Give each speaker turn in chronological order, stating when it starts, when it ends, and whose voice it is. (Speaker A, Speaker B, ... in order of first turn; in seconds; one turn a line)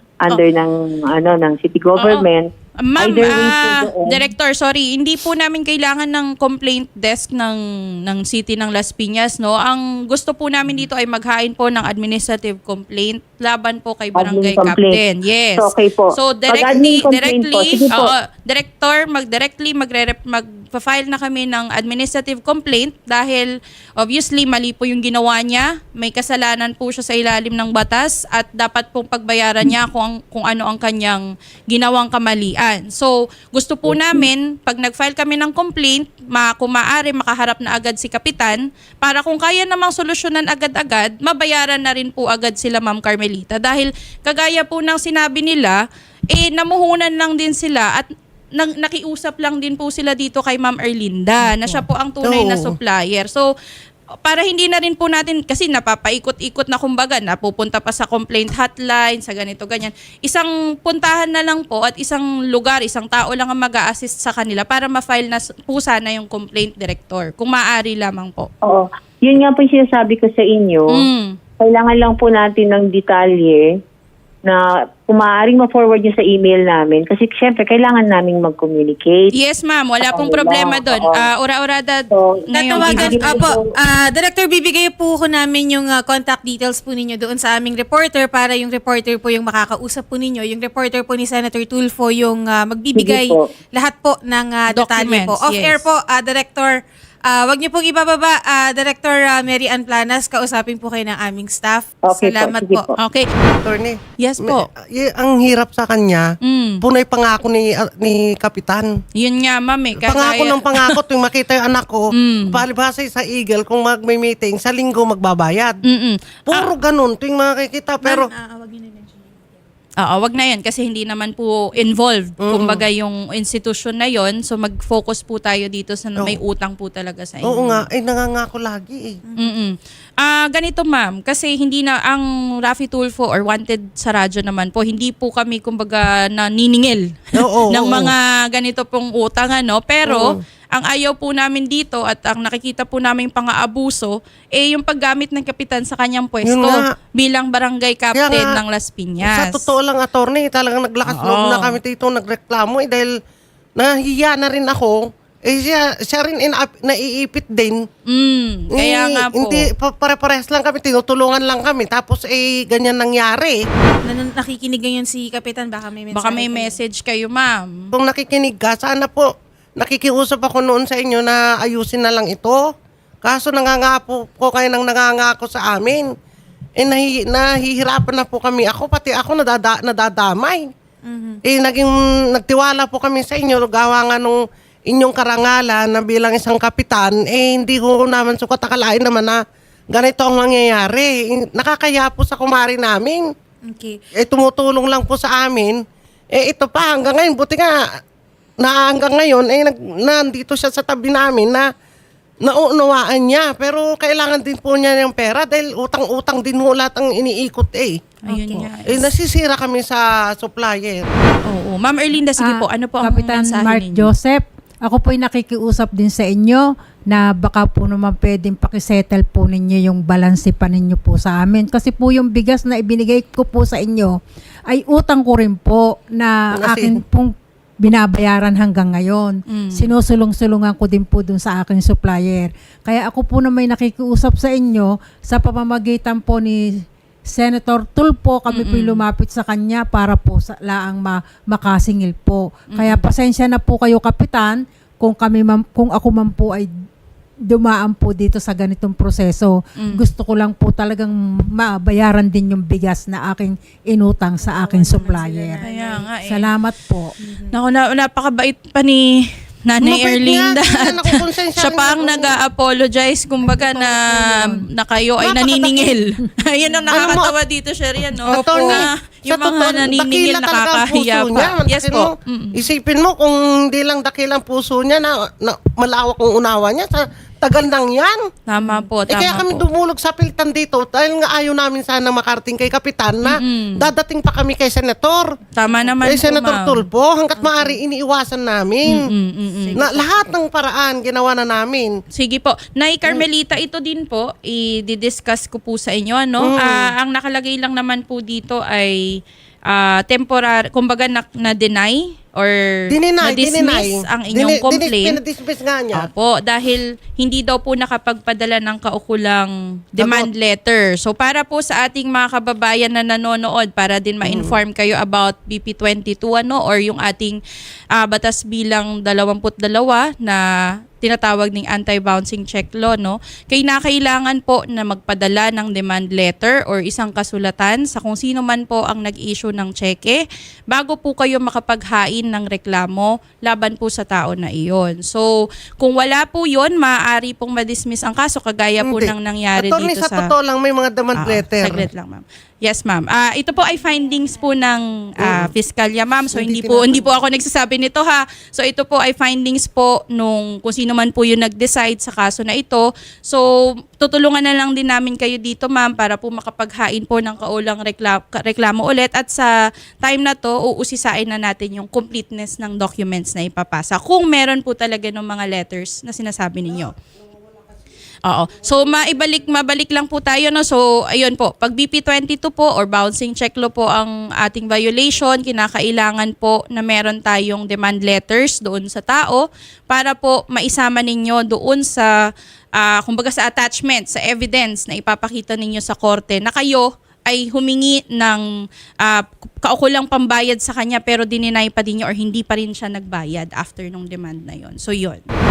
Speaker A: 0.2-4.2
Speaker B: 2.0-2.3
Speaker B: 2.8-45.8
Speaker A: 14.2-15.0
Speaker A: 15.6-18.1
Speaker B: 46.3-53.5
Speaker C: 52.2-52.7
Speaker B: 54.2-68.5
Speaker A: 68.6-71.0
Speaker B: 70.9-71.4
Speaker A: 71.6-73.7
Speaker A: 74.5-79.3
Speaker B: 79.3-83.4
Speaker A: 80.1-81.2
Speaker A: 82.1-83.6
Speaker D: 82.5-102.9
Speaker A: 93.0-93.4
Speaker B: 94.7-95.8
Speaker A: 102.1-103.0
Speaker B: 103.0-103.3
Speaker C: 103.6-106.3
Speaker B: 104.2-104.7
Speaker B: 106.4-106.8
Speaker C: 106.8-108.9
Speaker B: 109.2-110.9
Speaker C: 110.0-115.8
Speaker B: 112.2-112.6
Speaker B: 115.9-116.7
Speaker C: 116.5-118.3
Speaker D: 118.0-119.3
Speaker B: 120.0-127.8
Speaker C: 122.4-122.8
Speaker C: 127.4-129.2
Speaker D: 129.3-129.5
Speaker B: 129.4-149.7
Speaker C: 137.4-138.1
Speaker C: 140.1-140.4
Speaker C: 146.4-146.8
Speaker C: 148.2-148.6
Speaker C: 149.2-153.1
Speaker B: 151.1-151.8
Speaker C: 153.8-157.8
Speaker B: 158.1-159.6
Speaker C: 158.8-163.6
Speaker D: 164.1-166.8
Speaker B: 166.1-167.9
Speaker C: 167.9-172.6
Speaker C: 173.2-176.1
Speaker C: 176.8-180.7
Speaker D: 181.1-181.4
Speaker C: 181.5-189.4
Speaker C: 189.9-193.3
Speaker D: 193.7-194.0
Speaker C: 194.2-195.8
Speaker C: 196.3-197.8
Speaker C: 198.6-201.7
Speaker C: 202.4-208.1
Speaker B: 208.3-209.1
Speaker C: 208.9-211.1
Speaker B: 211.5-214.1
Speaker E: 212.4-236.6
Speaker C: 226.5-227.0
Speaker B: 229.5-229.9
Speaker E: 237.3-246.7
Speaker B: 238.5-239.1
Speaker B: 242.7-243.1
Speaker E: 247.5-255.7
Speaker B: 249.8-250.0
Speaker D: 254.4-256.0
Speaker B: 255.6-256.5
Speaker E: 256.2-257.1
Speaker D: 257.2-257.6
Speaker B: 257.5-272.6
Speaker C: 259.8-262.4
Speaker E: 263.4-264.6
Speaker C: 265.2-266.0
Speaker C: 266.9-267.4
Speaker C: 268.3-278.2
Speaker D: 268.4-268.8
Speaker B: 278.5-279.7
Speaker C: 279.1-285.3
Speaker B: 283.3-283.9
Speaker B: 285.6-286.8
Speaker C: 286.0-289.0
Speaker D: 287.4-287.8
Speaker B: 288.9-289.8
Speaker D: 289.7-290.1
Speaker C: 289.8-291.9
Speaker B: 292.1-298.9
Speaker C: 296.4-296.9
Speaker B: 299.7-302.6
Speaker C: 302.9-306.1
Speaker B: 303.2-305.2
Speaker B: 305.9-317.4
Speaker C: 310.0-310.3
Speaker C: 314.2-314.6
Speaker B: 318.0-320.4
Speaker B: 321.0-335.2
Speaker B: 335.8-340.3
Speaker C: 338.8-341.9
Speaker B: 341.2-353.4
Speaker C: 345.2-345.5
Speaker C: 346.3-347.1
Speaker B: 354.0-359.5
Speaker B: 360.0-366.9
Speaker B: 368.2-382.1
Speaker C: 368.9-369.3
Speaker B: 382.8-388.4
Speaker B: 389.0-395.2